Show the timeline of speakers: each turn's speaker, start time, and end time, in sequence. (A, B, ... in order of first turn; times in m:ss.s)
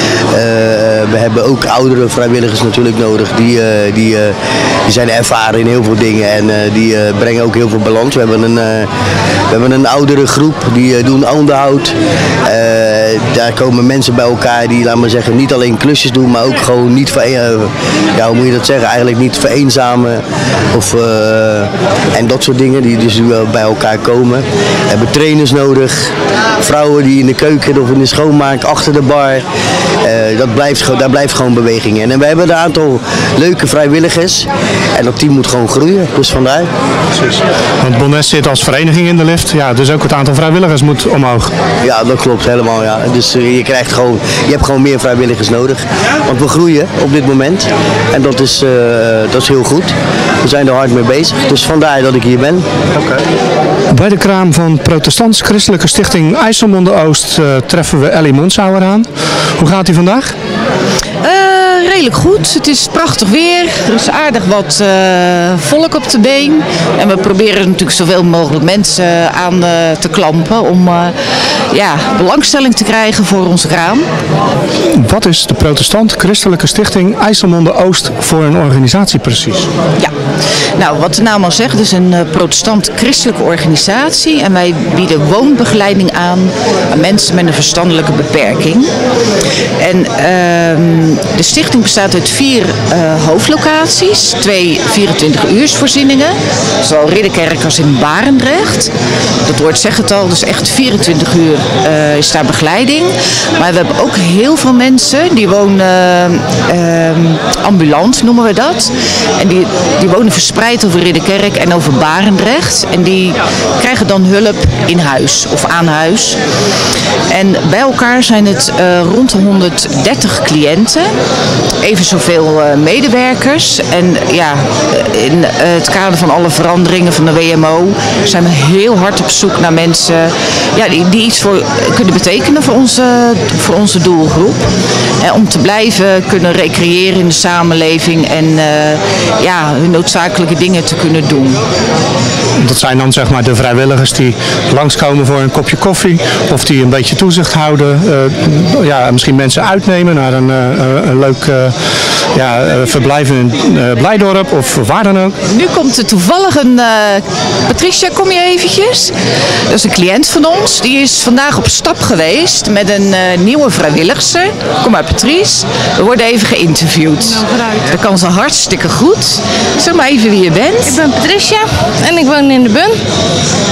0:00.3-0:08.9 A
0:09.5-0:11.9 A
0:12.4-0:29.4 A
0:30.0-0:36.7 A
0:37.8-0:41.5 B
0:41.8-0:52.6 A
0:53.9-1:00.4 B
1:01.2-1:11.1 C
1:11.7-1:14.0 C
1:14.9-1:19.7 B
1:20.8-1:28.9 C
1:29.8-1:38.9 C
1:39.5-1:56.4 C
1:57.3-2:01.1 C
2:01.8-2:14.6 C
2:15.2-2:21.6 C
2:22.6-2:31.8 B
2:32.3-2:35.3 B
2:35.4-2:39.1 C
2:39.7-2:51.0 C
2:47.4-2:47.8 D
2:50.8-2:53.0 D